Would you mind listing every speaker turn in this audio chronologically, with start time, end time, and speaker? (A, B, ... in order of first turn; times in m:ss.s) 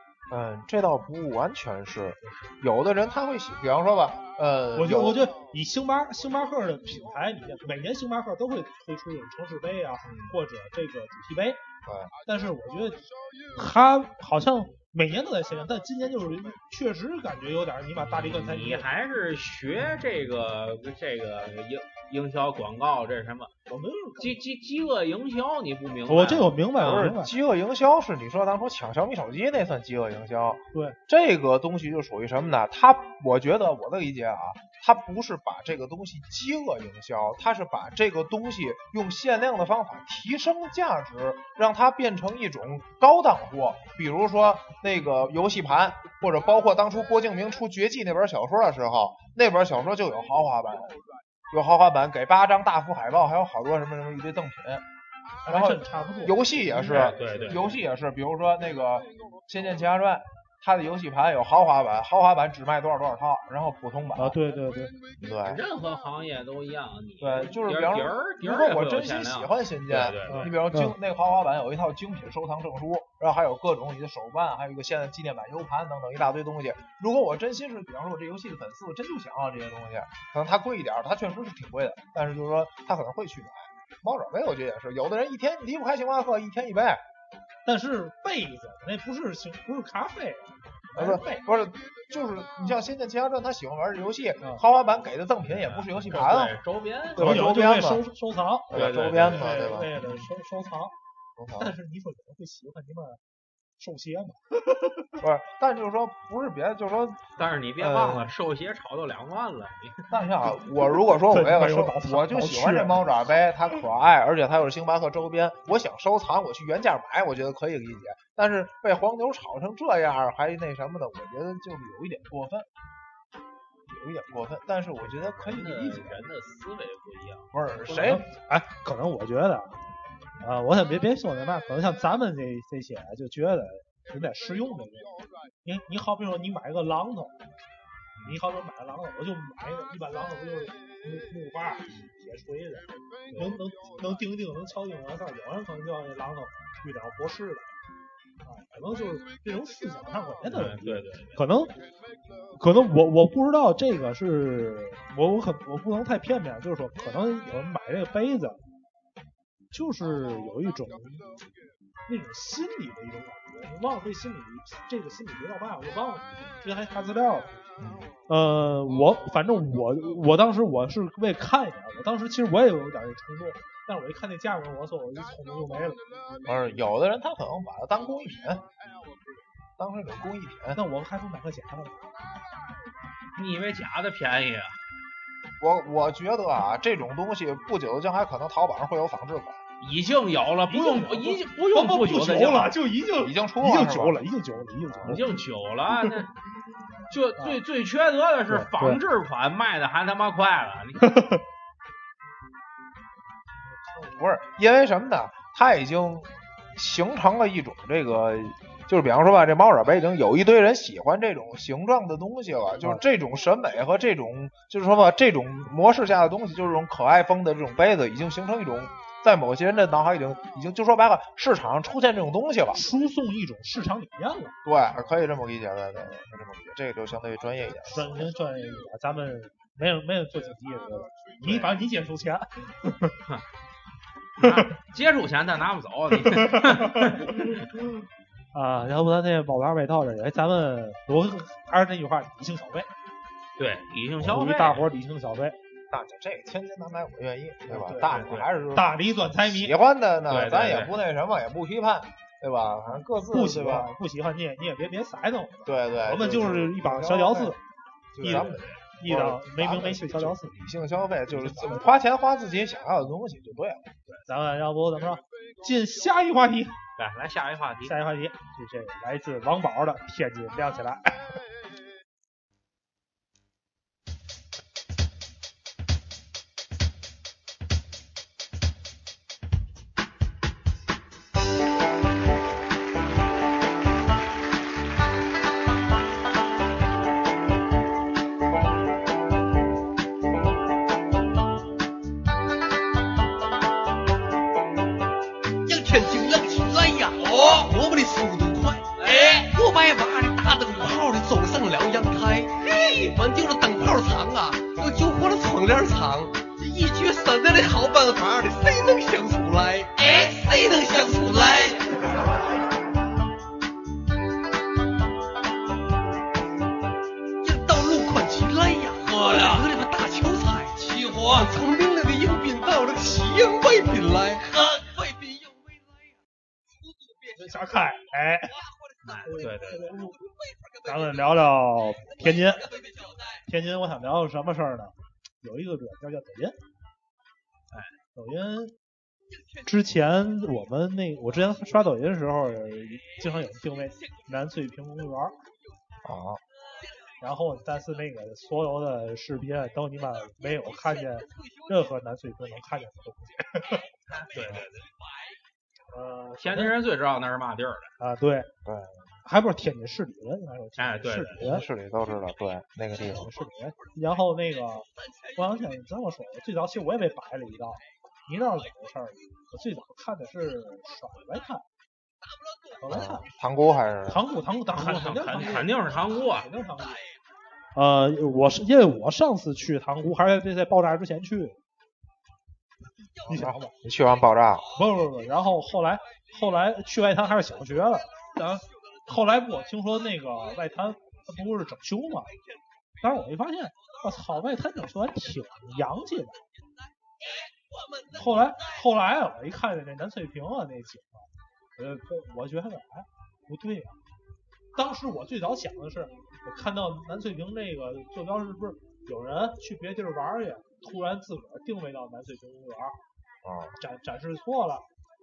0:00.3-0:05.2 A
0:02.2-0:02.5 B
0:04.7-0:11.6 C
0:10.0-0:10.3 B
0:11.8-0:12.1 A
0:12.2-0:18.9 C
0:18.0-0:23.5 B
0:23.7-0:24.4 C
0:24.2-0:26.6 B
0:26.1-0:27.3 C
0:26.8-0:51.0 A
0:30.7-0:31.0 C
0:51.5-0:54.8 A
0:55.4-0:57.6 C
0:55.4-1:04.4 A
0:56.7-0:57.8 B
1:04.2-1:04.9 C
1:05.2-1:05.6 A
1:05.4-1:10.5 B
1:07.2-1:27.0 A
1:10.3-1:10.9 C
1:27.6-1:31.5 C
1:31.0-1:36.6 A
1:35.4-1:37.2 B
1:37.1-1:38.1 A
1:37.2-1:38.7 C
1:38.7-1:40.0 A
1:38.7-1:39.6 B
1:39.3-1:40.9 C
1:41.4-1:41.7 A
1:41.6-1:43.2 C
1:43.8-1:45.1 C
1:45.2-1:48.3 A
1:47.4-1:50.0 B
1:50.1-2:02.7 A
1:51.1-1:53.0 C
2:03.9-2:06.3 A
2:05.1-2:07.5 B
2:07.5-2:08.2 A
2:07.9-2:09.8 C
2:10.4-2:17.4 C
2:18.2-2:27.7 C
2:23.3-2:23.5 B
2:28.4-2:31.7 C
2:30.4-2:31.4 B
2:32.5-2:38.6 C
2:39.7-2:41.3 C
2:42.1-2:47.5 C
2:47.8-2:48.1 A
2:48.3-2:56.1 C
2:56.4-2:58.6 A
2:59.8-3:00.8 A
3:00.7-3:02.0 C
3:03.4-3:04.8 B
3:05.6-3:09.6 A
3:09.8-3:12.7 B
3:10.7-3:15.4 C
3:13.2-3:14.2 A
3:14.8-3:15.2 A
3:15.0-3:16.3 B
3:15.9-3:16.3 C
3:17.1-3:21.1 B
3:18.5-3:19.0 C
3:21.0-3:21.4 C
3:24.0-3:42.8 A
3:42.7-3:44.6 C
3:44.6-3:48.3 A
3:47.8-3:53.2 C
3:54.4-3:57.6 B
3:54.4-3:54.7 C
3:56.2-3:57.8 C
3:58.5-4:02.9 C
4:03.6-4:04.8 B
4:04.2-4:05.6 C
4:05.9-4:13.9 A
4:07.7-4:09.8 C
4:08.1-4:08.5 B
4:10.3-4:10.9 B
4:13.3-4:17.6 C
4:15.6-4:17.6 A
4:18.1-4:23.9 A
4:18.2-4:20.6 C
4:18.3-4:18.8 B
4:21.2-4:22.0 C
4:24.2-4:26.8 C
4:27.0-4:28.0 B
4:27.8-4:31.2 C
4:55.6-5:12.2 D
5:17.4-5:25.8 D
5:27.3-5:28.6 C
5:29.0-5:29.8 B
5:29.2-5:30.2 C
5:30.8-5:32.7 C
5:33.4-5:36.6 C
5:38.1-5:38.7 C
5:39.6-5:45.4 C
5:46.0-5:46.4 A
5:47.2-5:53.8 C
5:54.3-5:54.7 B
5:55.9-5:56.7 C
5:56.4-5:57.9 B
5:58.0-5:58.5 C
5:58.6-5:59.2 A
5:59.2-6:01.6 C
6:00.8-6:01.4 B
6:01.4-6:03.3 A
6:03.0-6:11.6 C
6:12.8-6:13.3 C
6:12.9-6:14.2 A
6:14.1-6:17.0 C
6:14.7-6:16.5 B
6:17.7-6:21.6 C
6:23.2-6:23.7 C
6:23.2-6:24.6 A
6:24.7-6:32.3 C
6:33.0-6:36.4 C
6:38.1-6:44.0 C
6:44.7-6:53.0 C
6:53.4-6:53.8 A
6:53.8-6:54.8 C